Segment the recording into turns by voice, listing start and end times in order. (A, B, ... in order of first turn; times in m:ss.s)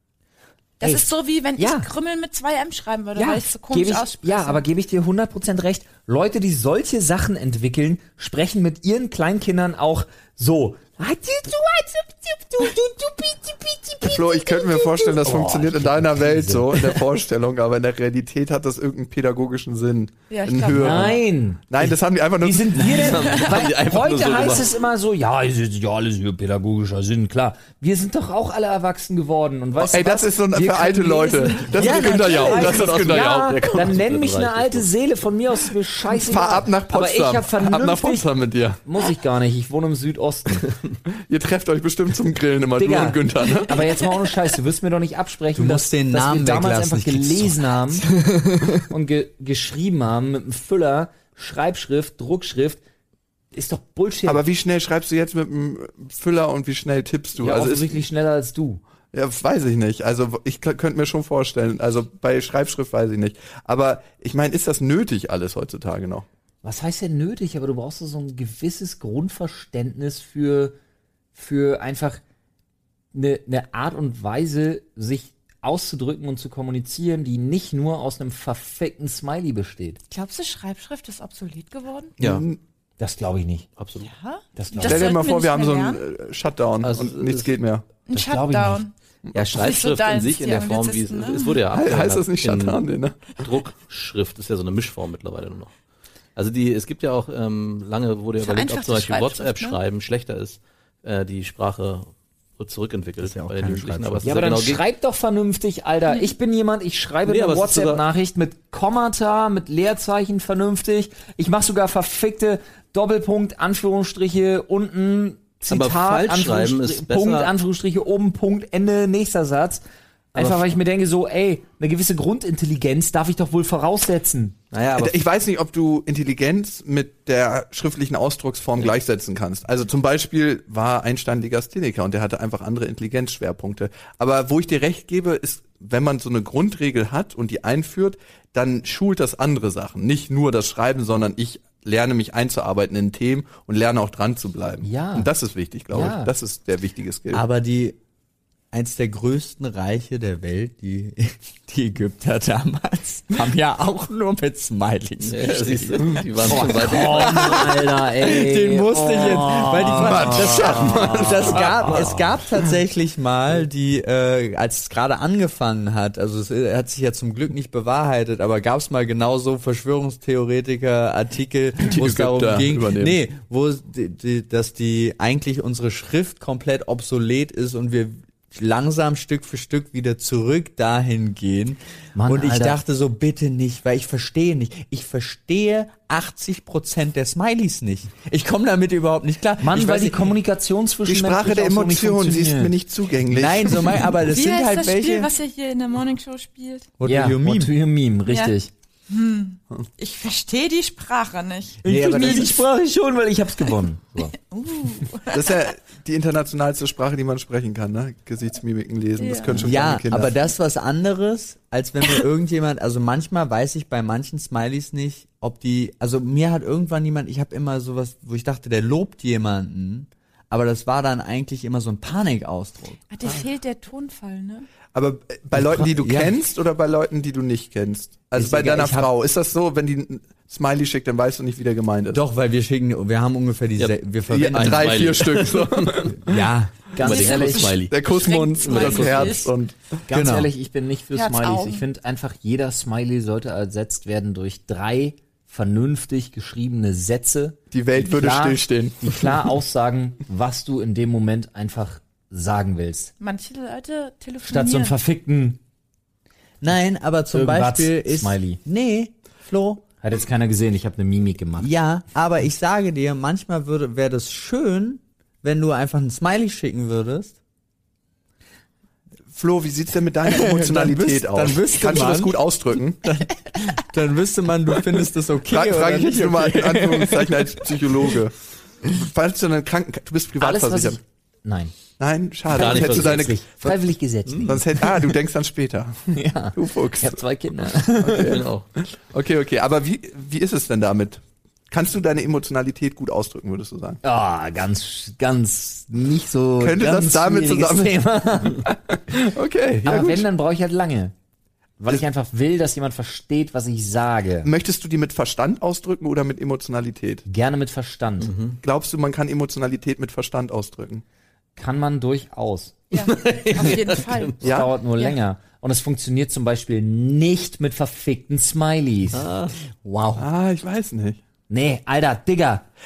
0:00.8-0:04.6 A
0:00.8-0:01.9 B
0:03.2-0:17.0 B
0:14.0-0:21.2 C
0:20.3-0:21.2 A
0:20.8-0:38.3 B
0:21.7-0:23.2 C
0:22.8-0:24.7 D
0:23.2-0:23.6 A
0:29.8-0:33.6 C
0:31.8-0:32.6 E
0:32.5-0:34.9 D
0:36.2-0:38.8 C
0:38.8-0:40.7 B
0:41.3-0:43.8 C
0:42.8-0:48.1 B
0:45.6-0:48.9 E
0:48.9-0:52.8 B
0:53.5-0:54.4 B
0:54.3-0:58.0 C
0:57.4-0:58.8 B
0:59.1-1:06.3 C
1:06.6-1:10.8 B
1:11.3-1:12.2 B
1:13.1-1:20.0 B
1:20.1-1:22.2 A
1:22.2-1:22.5 D
1:22.2-1:22.6 C
1:23.0-1:23.7 B
1:23.8-1:24.1 D
1:24.0-1:26.0 A
1:24.6-1:25.1 B
1:24.8-1:27.8 C
1:26.8-1:27.5 D
1:28.1-1:28.9 A
1:28.1-1:28.8 B
1:29.3-1:35.7 D
1:29.5-1:31.6 A
1:31.7-1:33.3 C
1:36.4-1:44.8 D
1:38.4-1:39.8 A
1:43.2-1:44.4 E
1:44.2-1:59.8 B
1:46.1-1:46.3 A
1:47.3-1:48.0 D
1:55.7-1:57.5 D
2:00.3-2:04.6 B
2:00.4-2:00.8 D
2:04.7-2:05.2 D
2:04.9-2:27.4 C
2:24.8-2:25.3 B
2:25.9-2:26.3 B
2:27.3-2:28.0 E
2:28.7-3:10.3 E
2:35.2-2:37.8 D
2:36.4-2:41.9 B
2:39.8-2:42.2 C
2:51.8-2:53.2 C
3:02.2-3:02.8 B
3:09.6-3:12.7 B
3:11.1-3:14.1 C
3:13.3-3:15.3 E
3:14.2-3:16.9 A
3:17.0-3:17.7 E
3:17.0-3:18.7 B
3:18.3-3:18.6 A
3:19.1-3:21.8 A
3:21.8-3:22.6 E
3:21.8-3:24.4 B
3:24.4-3:25.6 A
3:25.3-3:30.3 C
3:29.2-3:29.6 A
3:29.5-3:43.0 E
3:43.1-3:44.7 A
3:44.9-3:52.2 C
3:45.5-3:46.3 E
3:48.4-3:49.1 B
3:52.1-3:55.3 E
3:53.8-3:56.2 D
3:54.3-3:56.5 C
3:56.2-3:56.8 E
3:56.9-3:57.8 B
3:57.0-3:59.5 D
3:57.0-3:59.5 A
3:57.8-3:59.8 C
4:00.1-4:13.1 B
4:00.1-4:00.5 E
4:01.1-4:01.8 A
4:07.7-4:09.2 C
4:13.2-4:15.0 A
4:14.5-4:15.6 B
4:16.6-4:19.8 E
4:17.3-4:18.6 B
4:20.0-4:21.7 B
4:21.6-4:27.4 E
4:29.3-4:33.1 C
4:30.3-4:37.9 E
4:35.5-4:41.0 C
4:40.4-4:41.7 B
4:42.0-4:43.4 C
4:42.5-4:43.3 D
4:42.5-4:45.1 B
4:44.5-4:47.2 C
4:46.1-4:48.4 B
4:48.0-4:54.0 C
4:48.3-4:48.7 D
4:54.0-4:58.6 B
4:56.6-4:58.0 C
4:58.7-5:00.3 C
4:59.8-5:01.1 B
5:01.8-5:04.5 B
5:04.4-5:07.2 C
5:07.2-5:08.3 B
5:08.2-5:08.6 D
5:08.6-5:11.0 C
5:11.6-5:12.8 B
5:12.9-5:15.2 A
5:13.0-5:14.4 D
5:14.4-5:19.3 B
5:14.4-5:14.7 C
5:19.1-5:19.5 D
5:19.8-5:20.3 E
5:20.2-5:21.2 C
5:21.5-5:22.7 B